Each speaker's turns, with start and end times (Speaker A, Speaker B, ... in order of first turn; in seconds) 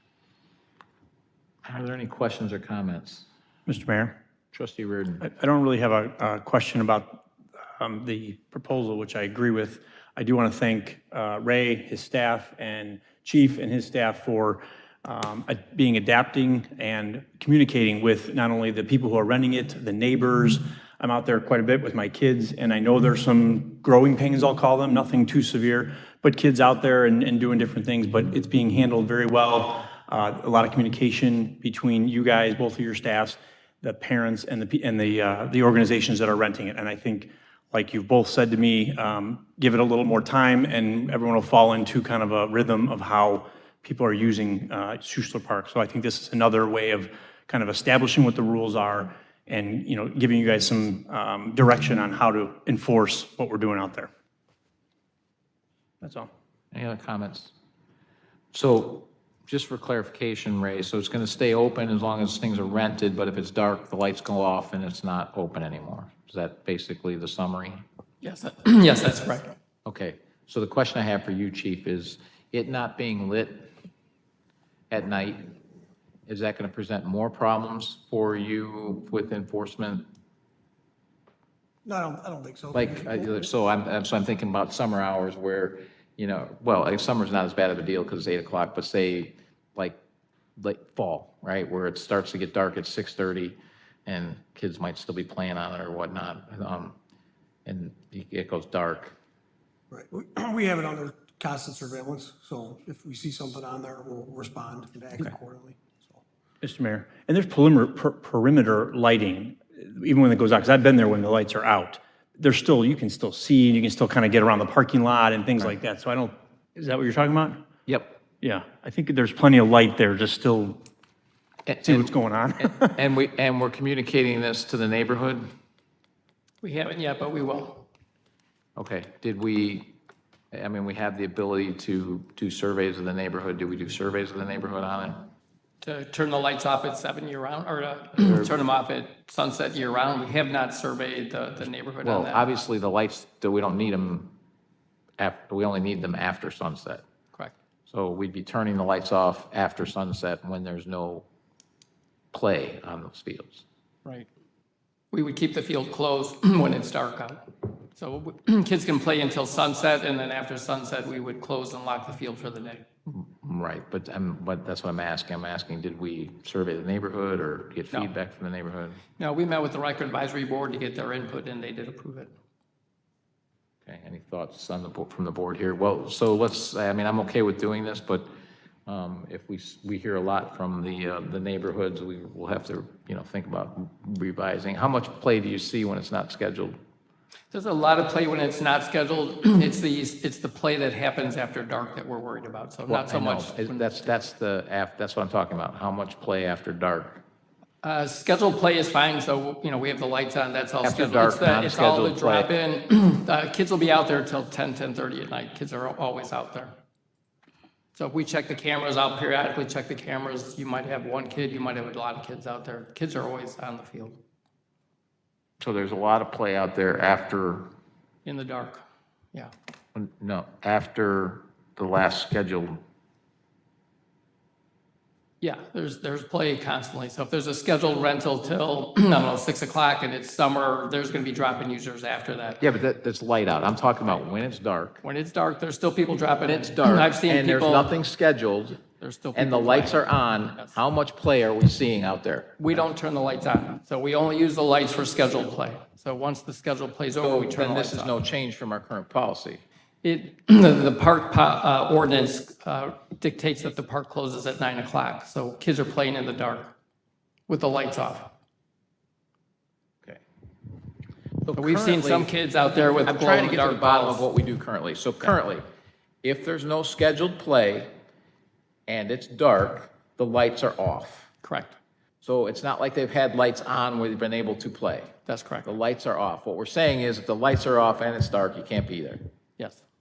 Speaker A: 1.6-3.3, 4.5-5.2, 56.7-57.5, 58.5-67.8, 69.8-73.7, 74.9-75.6, 76.3-80.1, 82.7-90.0, 90.6-97.0, 97.7-99.2, 117.9-118.2, 121.7-125.5, 128.8-129.9, 130.5-135.3, 138.2-138.5, 142.0-144.3, 145.2-147.0, 147.9-151.3, 152.3-153.7, 163.1-169.0, 173.9-178.3, 178.9-186.8, 192.9-197.2, 200.8-202.5, 215.6-217.7, 219.9-222.8, 232.6-235.0, 236.5-238.8, 239.3-242.8, 247.2-249.6, 261.4-265.6, 266.2-267.9, 268.9-271.3, 272.2-275.1, 275.6-279.2
Speaker B: 3.7-4.2, 5.2-7.2, 7.8-54.1, 56.0-56.3, 106.6-117.6, 118.4-120.8, 121.8-123.0
Speaker C: 68.2-69.5, 126.6-127.9, 135.8-142.5, 155.1-162.8, 169.2-172.3, 187.5-193.9, 197.8-206.8, 207.9-214.2, 218.2-219.5, 225.4-232.6, 235.0-237.9, 239.0-240.8, 242.6-248.2, 250.0-256.7, 257.5-258.3, 261.6-264.3, 271.4-271.8, 275.3-275.7
Speaker D: 81.8-83.3, 99.9-106.2